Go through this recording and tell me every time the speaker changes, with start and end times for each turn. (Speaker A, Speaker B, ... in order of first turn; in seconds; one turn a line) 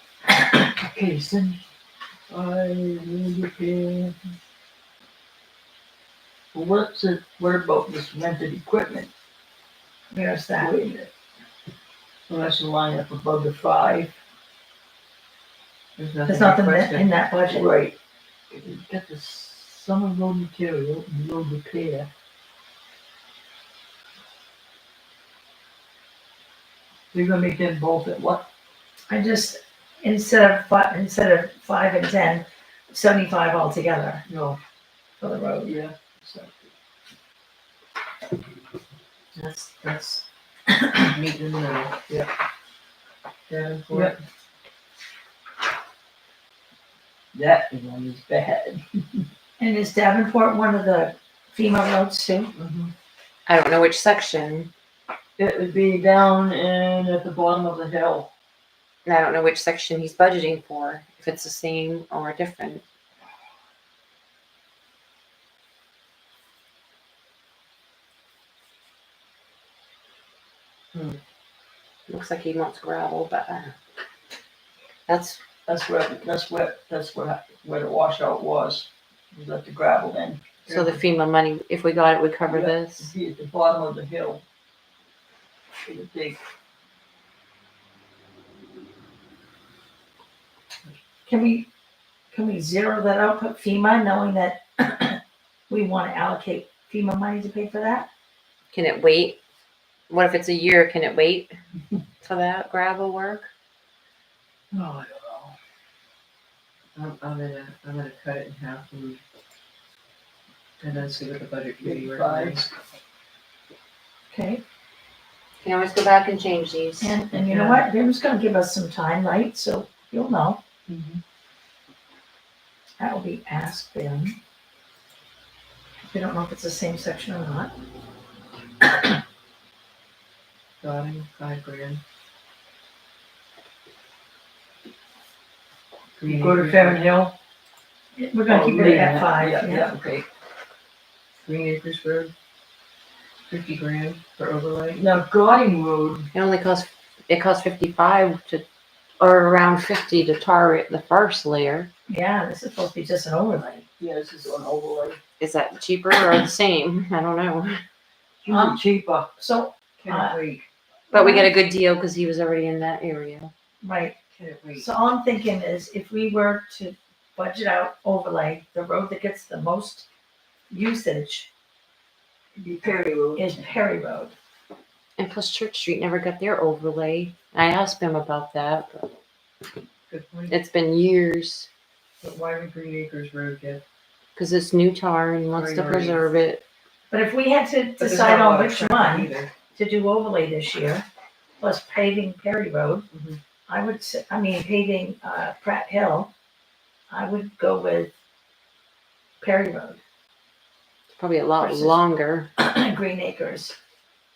Speaker A: 0.8-1.6
Speaker A: 2.3-4.2
Speaker A: 6.5-9.1
Speaker B: 10.1-10.7
Speaker A: 10.6-11.1
Speaker A: 12.3-14.1
Speaker C: 16.0-17.1
Speaker B: 16.3-17.7
Speaker A: 17.5-18.0
Speaker A: 18.5-22.1
Speaker A: 27.1-28.5
Speaker B: 29.1-34.2
Speaker A: 34.3-34.6
Speaker B: 35.2-35.8
Speaker A: 35.6-36.7
Speaker C: 39.4-40.2
Speaker C: 41.0-42.0
Speaker C: 43.5-44.2
Speaker A: 43.9-44.2
Speaker A: 47.3-49.3
Speaker B: 49.6-52.5
Speaker A: 52.6-52.9
Speaker D: 53.5-54.7
Speaker A: 55.4-58.3
Speaker D: 59.0-62.8
Speaker D: 72.1-73.8
Speaker D: 75.1-75.4
Speaker A: 75.7-81.0
Speaker D: 80.7-83.1
Speaker A: 82.5-84.4
Speaker A: 85.8-86.4
Speaker B: 91.3-91.7
Speaker B: 92.3-98.1
Speaker D: 98.7-99.4
Speaker D: 100.1-101.5
Speaker D: 102.2-103.5
Speaker A: 104.7-105.5
Speaker C: 107.0-109.2
Speaker C: 110.8-112.7
Speaker A: 111.8-112.7
Speaker B: 114.3-114.6
Speaker D: 115.6-117.2
Speaker B: 117.0-120.6
Speaker C: 117.4-117.8
Speaker A: 120.9-121.2
Speaker B: 123.0-124.4
Speaker B: 126.1-127.7
Speaker B: 128.8-129.2
Speaker C: 130.8-132.0
Speaker C: 136.2-137.0
Speaker A: 136.2-137.3
Speaker B: 138.2-139.9
Speaker A: 138.5-140.3
Speaker A: 141.7-142.3
Speaker C: 143.5-145.0
Speaker A: 144.9-146.3
Speaker D: 146.3-148.7
Speaker D: 149.2-151.9
Speaker B: 152.1-153.8
Speaker A: 154.0-155.2
Speaker D: 155.4-157.8
Speaker A: 158.4-159.3
Speaker B: 158.5-158.8
Speaker B: 159.4-160.4
Speaker C: 160.0-160.6
Speaker B: 161.1-161.5
Speaker D: 161.1-163.5
Speaker B: 163.8-164.2
Speaker C: 164.3-164.9
Speaker B: 164.8-170.1
Speaker B: 170.7-171.5
Speaker A: 172.6-173.5
Speaker B: 173.4-174.3
Speaker D: 175.2-179.1
Speaker C: 180.1-180.6
Speaker D: 180.5-181.7
Speaker C: 182.2-183.8
Speaker D: 184.4-186.6
Speaker C: 185.5-186.2
Speaker B: 187.1-191.1
Speaker C: 188.0-189.5
Speaker B: 191.6-193.1
Speaker C: 193.1-193.4
Speaker B: 193.7-196.3
Speaker B: 197.1-198.1
Speaker B: 199.4-200.0
Speaker D: 201.2-202.5
Speaker B: 201.6-202.0
Speaker B: 202.6-203.8